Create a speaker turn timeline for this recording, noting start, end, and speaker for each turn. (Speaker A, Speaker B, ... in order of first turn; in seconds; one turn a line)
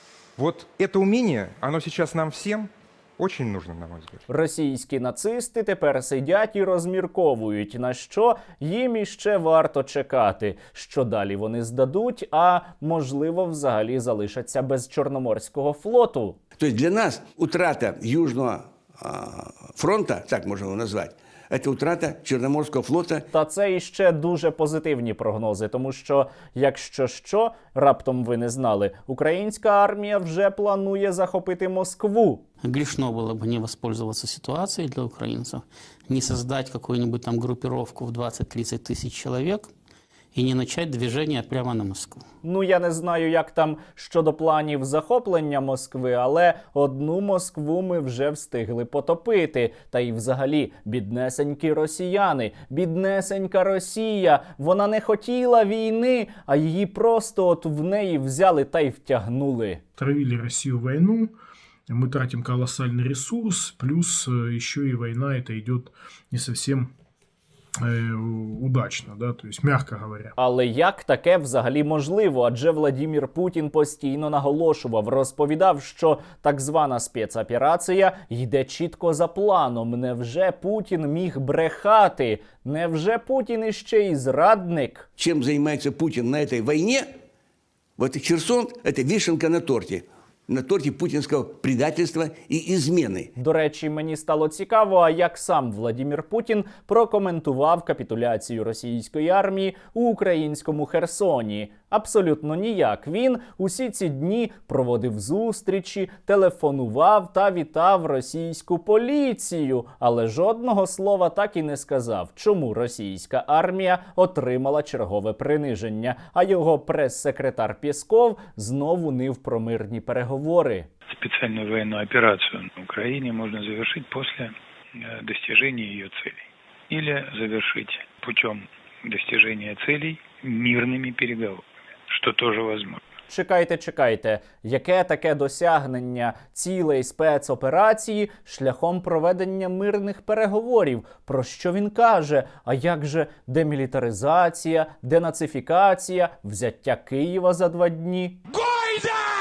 Speaker A: 0.4-4.2
Speaker B: 4.3-16.4
Speaker C: 16.6-23.3
Speaker B: 23.3-32.5
Speaker D: 32.6-39.7
Speaker D: 40.3-42.2
Speaker B: 42.4-59.8
Speaker E: 60.0-61.3
Speaker E: 61.9-66.9
Speaker E: 67.8-70.3
Speaker B: 70.4-85.1
Speaker C: 85.2-87.1
Speaker C: 88.0-93.3
Speaker B: 93.4-120.9
Speaker F: 121.2-133.0
Speaker B: 133.3-148.4